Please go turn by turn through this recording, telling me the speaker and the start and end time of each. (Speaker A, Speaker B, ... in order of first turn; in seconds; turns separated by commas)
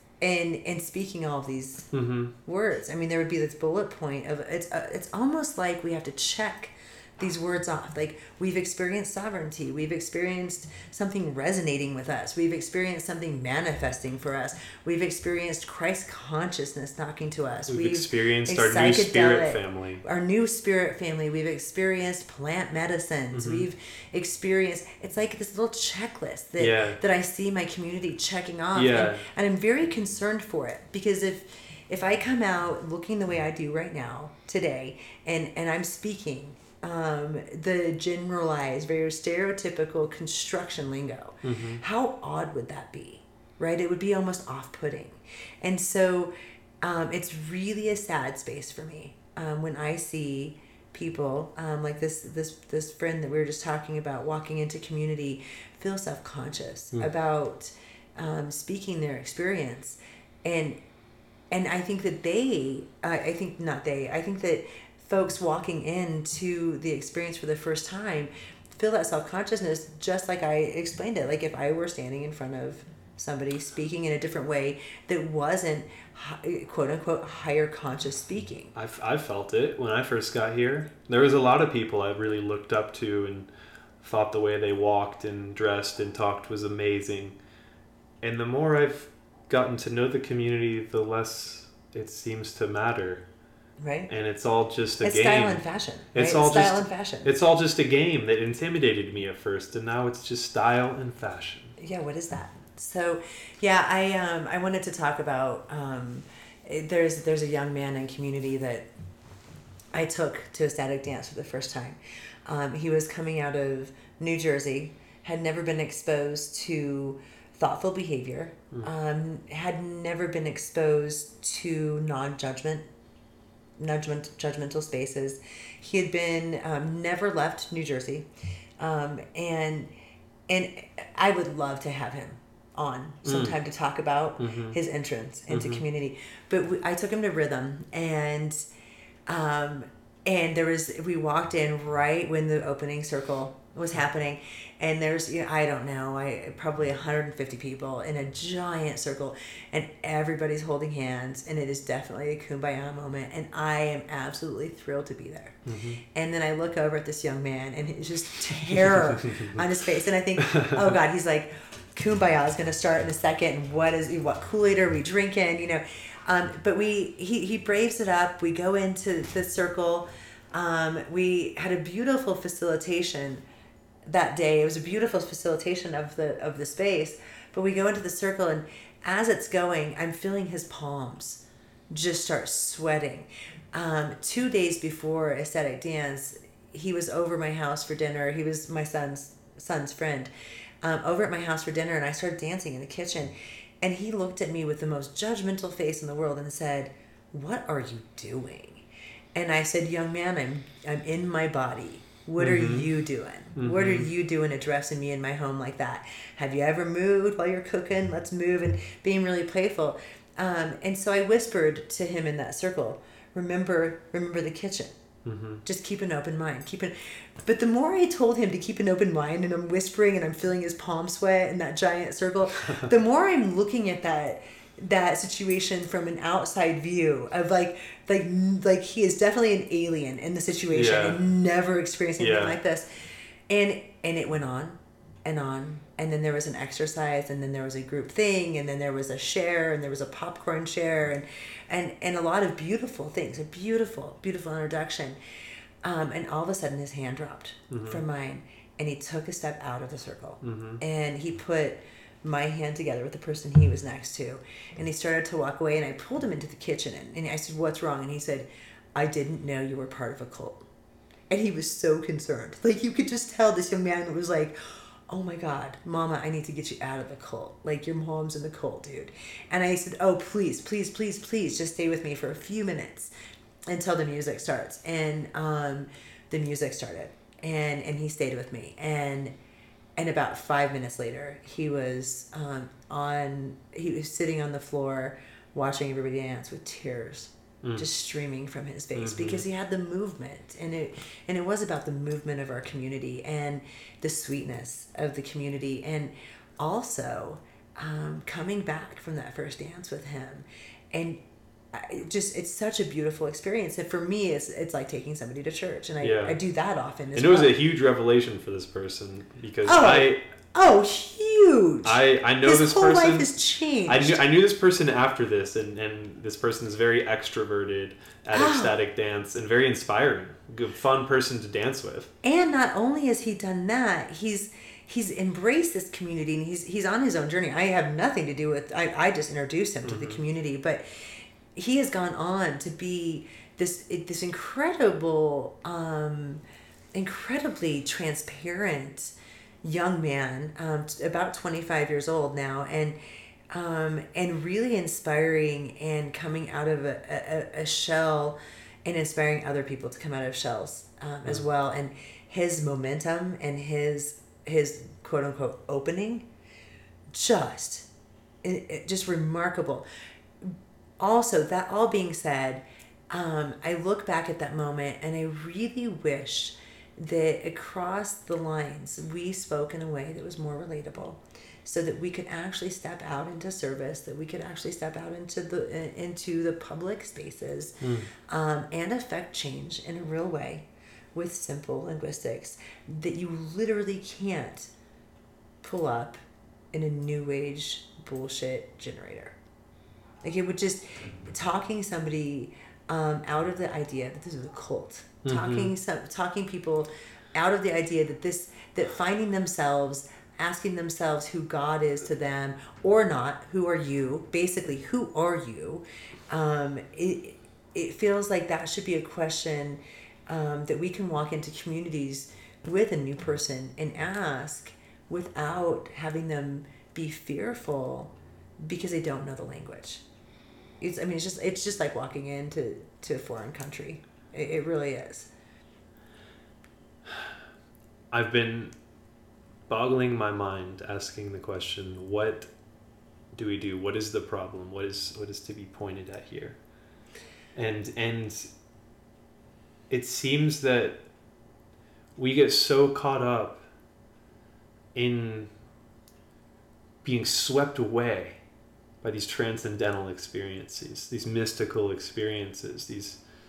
Speaker A: 0.2-1.9, Speaker B: 1.9-2.3, Speaker A: 2.4-60.8, Speaker B: 17.7-20.0, Speaker B: 23.3-23.7, Speaker B: 26.6-27.0, Speaker B: 28.7-29.2, Speaker B: 41.4-41.8, Speaker A: 61.5-78.7, Speaker B: 78.8-83.5, Speaker B: 84.0-87.4, Speaker B: 88.2-93.2, Speaker A: 93.8-94.1, Speaker B: 94.1-95.6, Speaker A: 95.0-97.3, Speaker B: 96.1-101.8, Speaker A: 101.8-108.8, Speaker A: 109.9-122.9, Speaker A: 123.8-128.3, Speaker A: 128.8-129.9, Speaker A: 130.5-138.6, Speaker B: 133.2-133.6, Speaker B: 134.4-134.8, Speaker B: 135.5-135.8, Speaker A: 139.3-155.6, Speaker B: 155.7-156.0, Speaker A: 156.1-173.4, Speaker B: 158.9-159.6, Speaker B: 160.4-160.9, Speaker A: 174.1-190.3, Speaker A: 190.8-198.8, Speaker A: 199.3-214.9, Speaker B: 202.4-202.9, Speaker B: 203.6-204.1, Speaker B: 215.2-215.6, Speaker A: 215.7-232.9, Speaker B: 230.7-231.2, Speaker B: 232.2-232.6, Speaker A: 233.5-245.2, Speaker A: 245.8-260.6, Speaker B: 247.7-248.0, Speaker B: 250.4-250.8, Speaker A: 261.3-264.6, Speaker A: 265.1-273.1, Speaker A: 273.7-279.3, Speaker A: 280.0-301.2, Speaker B: 289.0-289.4, Speaker A: 301.7-307.5, Speaker B: 306.0-306.4, Speaker B: 307.1-310.2, Speaker A: 309.6-314.2, Speaker B: 311.9-313.3, Speaker B: 313.9-322.1, Speaker A: 318.3-318.8, Speaker A: 322.2-336.4, Speaker B: 329.9-330.2, Speaker A: 336.9-343.0, Speaker A: 343.5-356.3, Speaker A: 357.1-357.9, Speaker A: 358.4-359.8, Speaker A: 360.4-384.7, Speaker B: 377.8-378.1, Speaker A: 385.6-386.2, Speaker A: 386.7-389.4, Speaker A: 390.2-420.0, Speaker B: 395.2-395.7, Speaker A: 420.8-425.3, Speaker B: 428.1-428.8, Speaker B: 429.7-432.5, Speaker B: 433.3-436.6, Speaker B: 437.6-438.5, Speaker B: 439.9-441.0, Speaker B: 442.2-443.6, Speaker B: 444.9-445.5, Speaker B: 447.0-448.4, Speaker B: 449.0-453.2